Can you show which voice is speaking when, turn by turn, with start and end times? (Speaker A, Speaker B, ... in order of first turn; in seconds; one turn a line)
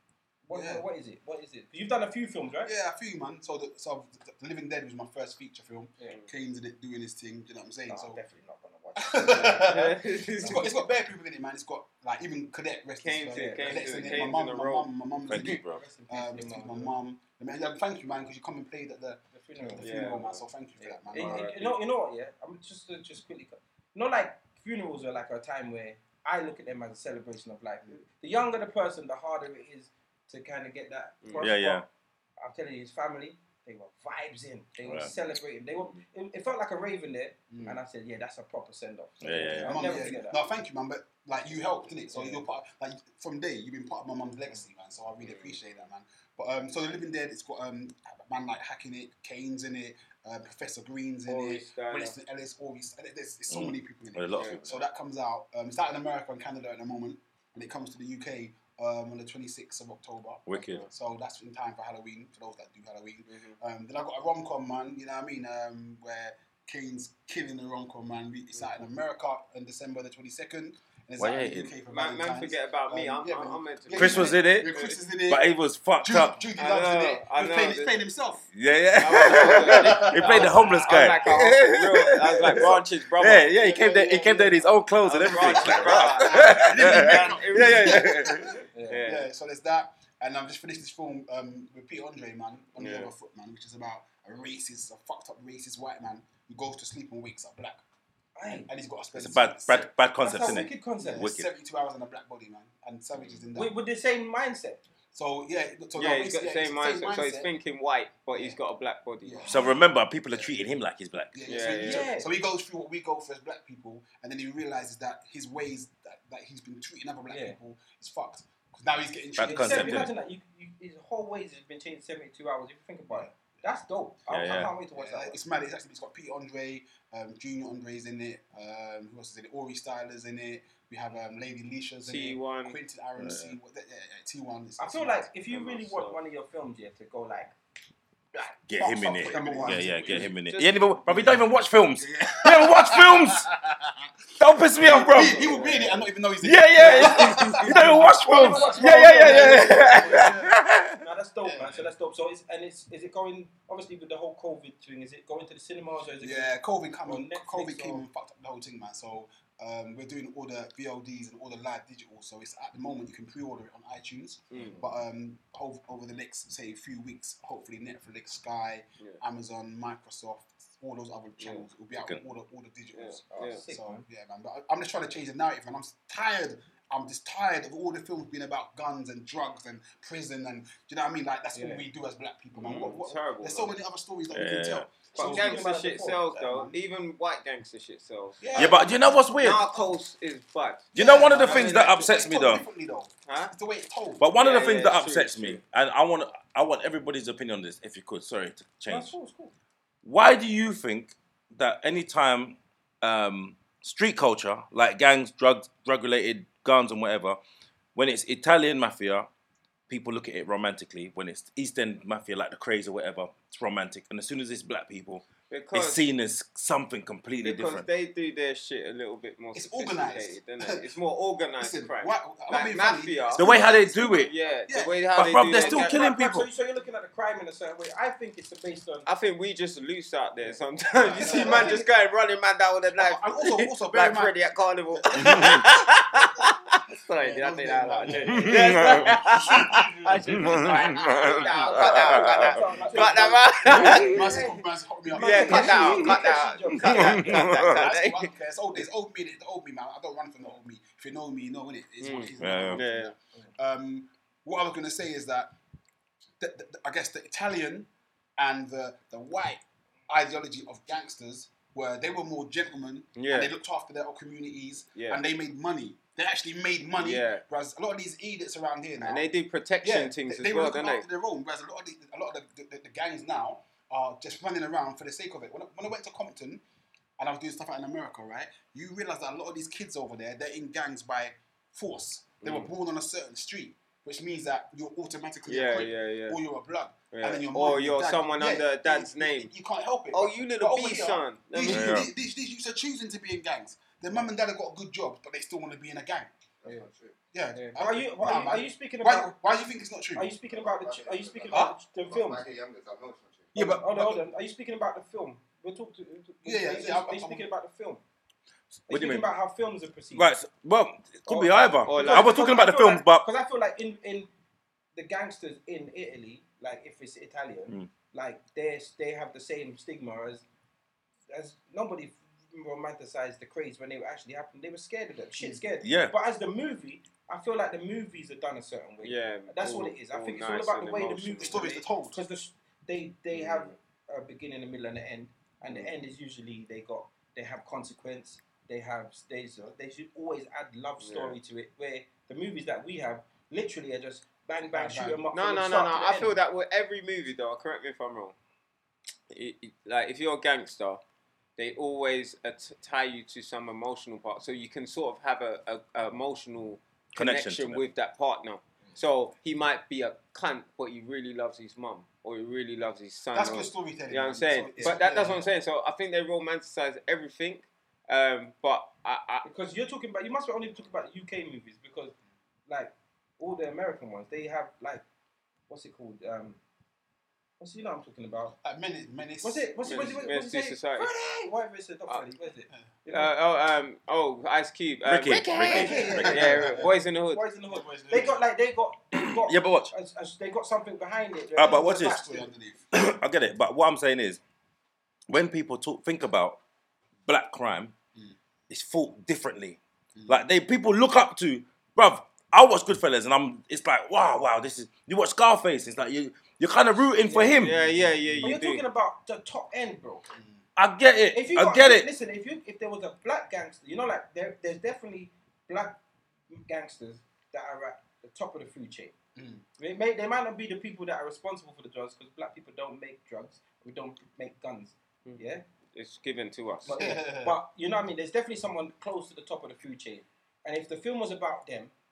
Speaker A: 0.5-2.7
Speaker B: 0.5-0.8
Speaker B: 2.6-8.2
Speaker A: 7.9-10.7
Speaker B: 9.0-21.5
Speaker C: 9.6-10.8
Speaker C: 13.0-15.8
Speaker A: 13.3-14.1
Speaker D: 15.3-15.8
Speaker A: 15.7-16.9
Speaker A: 19.3-20.2
Speaker C: 19.8-20.4
Speaker A: 20.8-31.9
Speaker C: 21.1-21.8
Speaker C: 31.2-31.5
Speaker D: 31.4-31.9
Speaker A: 32.4-40.4
Speaker D: 34.8-35.1
Speaker B: 37.5-37.8
Speaker D: 39.2-40.0
Speaker B: 39.6-81.7
Speaker A: 42.1-42.4
Speaker C: 45.2-45.6
Speaker C: 51.3-52.2
Speaker D: 53.5-54.8
Speaker D: 60.5-60.9
Speaker C: 60.6-60.9
Speaker C: 63.3-63.6
Speaker D: 71.2-71.8
Speaker C: 71.9-75.0
Speaker D: 73.9-74.7
Speaker D: 75.3-76.4
Speaker C: 76.6-78.0
Speaker D: 78.6-88.5
Speaker C: 79.0-89.3
Speaker B: 83.6-97.8
Speaker A: 85.4-85.9
Speaker A: 88.7-89.0
Speaker C: 92.8-93.1
Speaker A: 98.4-98.7
Speaker B: 98.4-103.8
Speaker D: 99.2-101.5
Speaker A: 100.2-101.3
Speaker A: 103.5-104.8
Speaker B: 105.1-107.5
Speaker C: 106.0-109.5
Speaker B: 109.2-110.5
Speaker D: 109.5-111.8
Speaker B: 111.3-120.1
Speaker C: 111.5-112.1
Speaker A: 111.8-112.3
Speaker A: 117.3-117.6
Speaker D: 119.4-120.1
Speaker A: 119.4-125.4
Speaker D: 124.3-124.7
Speaker B: 124.9-135.3
Speaker C: 132.0-132.8
Speaker D: 133.2-133.5
Speaker A: 134.8-137.5
Speaker C: 135.5-136.2
Speaker D: 138.7-143.5
Speaker B: 138.7-140.3
Speaker A: 139.3-139.7
Speaker C: 139.3-139.7
Speaker C: 140.2-141.0
Speaker B: 141.1-144.0
Speaker D: 144.4-145.5
Speaker B: 144.8-150.5
Speaker C: 145.1-146.0
Speaker D: 146.4-151.0
Speaker C: 146.8-148.0
Speaker A: 147.7-150.3
Speaker A: 151.0-158.1
Speaker B: 151.4-151.9
Speaker B: 156.2-185.6
Speaker C: 164.5-164.8
Speaker C: 171.4-171.7
Speaker C: 172.9-173.6
Speaker A: 173.3-174.1
Speaker A: 181.5-181.8
Speaker C: 182.6-183.8
Speaker D: 184.3-184.9
Speaker A: 185.2-186.2
Speaker C: 185.2-188.9
Speaker B: 186.3-186.8
Speaker B: 188.4-189.2
Speaker D: 188.6-189.6
Speaker C: 189.4-190.9
Speaker D: 190.9-192.6
Speaker B: 190.9-194.7
Speaker A: 191.2-192.1
Speaker C: 193.3-193.5
Speaker D: 194.2-199.1
Speaker C: 194.3-195.6
Speaker A: 198.9-199.5
Speaker D: 200.0-207.4
Speaker D: 207.9-209.3
Speaker D: 209.9-217.8
Speaker C: 215.5-216.1
Speaker C: 217.4-226.0
Speaker B: 219.5-220.8
Speaker B: 221.6-225.6
Speaker D: 223.4-224.3
Speaker D: 225.2-226.5
Speaker A: 225.5-229.1
Speaker C: 229.1-244.4
Speaker A: 230.9-231.8
Speaker B: 231.1-231.9
Speaker B: 233.0-234.4
Speaker B: 234.9-235.8
Speaker D: 235.2-235.6
Speaker B: 237.1-246.3
Speaker D: 238.3-239.2
Speaker D: 240.3-242.5
Speaker A: 241.7-247.4
Speaker D: 243.7-244.1
Speaker C: 245.2-248.3
Speaker D: 246.8-247.8
Speaker B: 246.9-255.5
Speaker C: 252.0-253.1
Speaker D: 252.4-252.8
Speaker B: 256.4-269.3
Speaker C: 263.2-263.5
Speaker C: 264.9-265.2
Speaker C: 267.0-267.4
Speaker C: 269.0-271.1
Speaker B: 269.8-276.6
Speaker B: 277.2-296.3
Speaker C: 282.4-282.7
Speaker C: 285.5-286.4
Speaker C: 287.1-289.5
Speaker C: 290.1-292.1
Speaker D: 291.7-292.1
Speaker E: 296.6-297.2
Speaker B: 297.3-300.3
Speaker A: 297.6-299.4
Speaker A: 300.1-302.4
Speaker E: 300.4-303.7
Speaker A: 303.5-308.0
Speaker B: 303.6-304.2
Speaker B: 306.4-307.4
Speaker A: 308.9-310.3
Speaker D: 308.9-309.3
Speaker D: 310.1-313.3
Speaker A: 311.3-314.3
Speaker C: 311.9-312.4
Speaker A: 314.9-320.4
Speaker A: 321.3-346.4
Speaker D: 325.8-326.1
Speaker C: 329.0-331.6
Speaker B: 331.4-332.2
Speaker C: 333.3-333.7
Speaker C: 335.6-336.0
Speaker C: 341.0-341.4
Speaker B: 344.7-345.3
Speaker C: 345.3-348.4
Speaker C: 349.3-351.0
Speaker C: 351.6-369.4
Speaker D: 357.2-357.8
Speaker B: 363.3-365.5
Speaker A: 369.4-372.1
Speaker A: 372.7-375.0
Speaker A: 375.7-376.6
Speaker A: 377.6-378.6
Speaker B: 378.6-380.3
Speaker A: 379.4-383.3
Speaker C: 379.9-381.1
Speaker C: 383.1-387.4
Speaker D: 385.1-386.6
Speaker A: 385.5-392.4
Speaker B: 385.7-387.0
Speaker B: 387.7-388.4
Speaker D: 389.2-389.9
Speaker D: 391.6-392.2
Speaker B: 391.8-392.9
Speaker D: 392.9-394.4
Speaker D: 395.3-396.6
Speaker D: 397.3-397.9
Speaker D: 398.7-407.8
Speaker B: 400.1-400.5
Speaker A: 407.2-407.6
Speaker C: 407.5-408.8
Speaker B: 407.7-408.6
Speaker A: 408.4-410.2
Speaker B: 410.4-410.6
Speaker D: 410.8-412.1
Speaker A: 411.3-416.0
Speaker A: 416.5-419.1
Speaker B: 419.4-419.6
Speaker A: 419.8-425.6
Speaker C: 425.9-426.9
Speaker A: 426.9-431.9
Speaker B: 426.9-427.6